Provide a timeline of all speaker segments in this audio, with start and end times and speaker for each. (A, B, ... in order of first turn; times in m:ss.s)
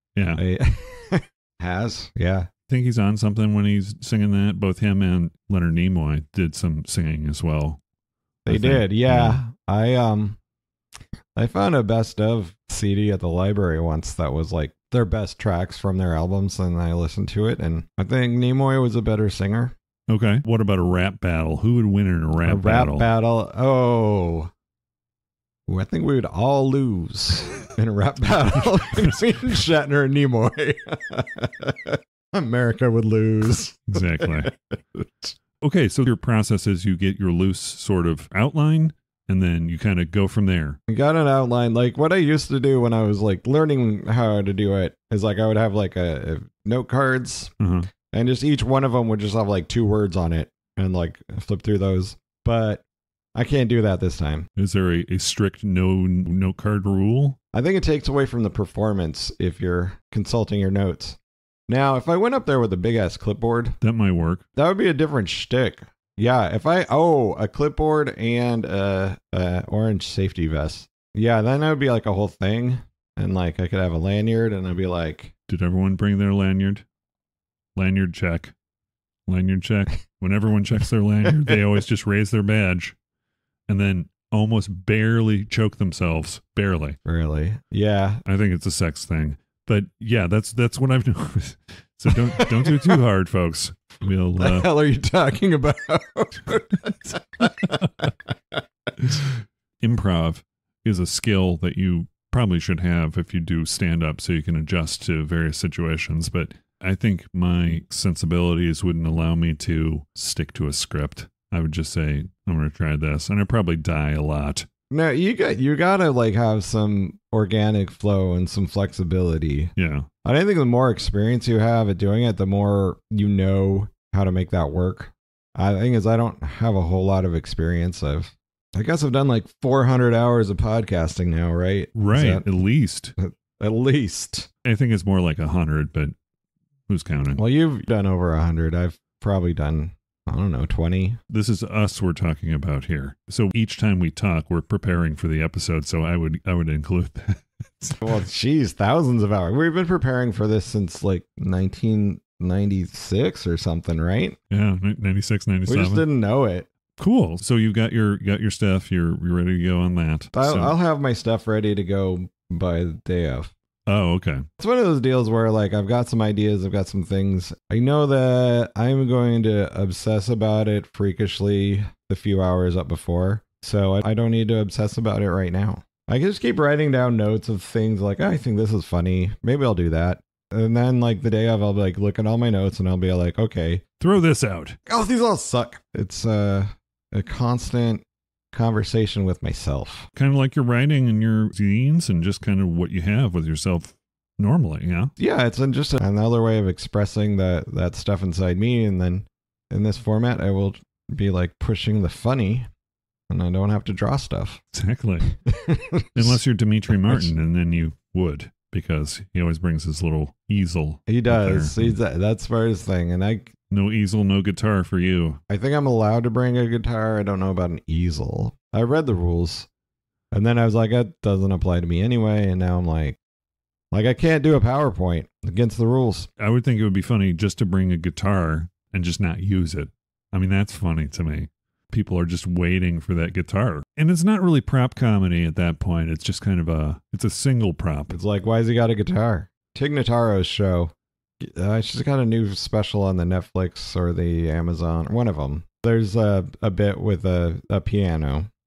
0:00.1-0:00.4 A
0:00.4-0:02.5 B
0:02.7-0:07.8 A
0:08.4-0:09.4 A
0:08.4-0:10.4 B
0:11.3-0:19.7 B
0:20.1-0:23.1 A
0:22.4-0:24.5 B
0:25.7-0:35.3 B
0:33.9-0:34.5 A
0:35.6-0:40.8 A
0:40.9-0:47.5 B
0:47.6-0:47.9 A
0:48.1-0:52.8 B
0:53.3-0:54.5 B
0:54.6-0:57.4 A
0:57.5-1:03.8 B
1:03.8-1:04.4 A
1:04.6-1:15.3 B
1:15.5-1:16.8 A
1:17.8-1:18.5 A
1:19.3-1:23.0 A
1:23.7-1:27.0 A
1:27.0-1:28.2 B
1:28.2-1:34.7 A
1:32.1-1:33.0 B
1:34.4-1:39.2 B
1:37.6-1:37.9 A
1:39.8-1:54.7 A
1:54.9-1:59.7 B
1:59.8-2:00.1 A
2:00.2-2:12.4 B
2:11.9-2:13.1 A
2:13.2-2:14.5 B
2:14.6-2:16.2 A
2:16.9-2:17.4 A
2:17.3-2:21.2 B
2:21.3-2:28.1 A
2:28.0-2:34.4 B
2:34.5-2:36.0 A
2:35.7-2:36.7 B
2:37.0-2:40.7 A
2:40.3-2:43.5 B
2:43.9-2:44.5 A
2:44.6-3:03.8 B
3:04.0-3:04.8 A
3:04.9-3:10.1 B
3:10.1-3:15.1 A
3:15.2-3:22.7 B
3:23.3-3:24.6 B
3:24.7-3:25.3 A
3:25.4-3:27.3 B
3:26.1-3:32.0 A
3:31.1-3:33.5 B
3:33.7-3:35.4 A
3:35.5-3:39.7 B
3:40.3-3:43.2 B
3:43.9-3:46.3 B
3:46.4-3:58.2 A
3:58.1-4:08.5 B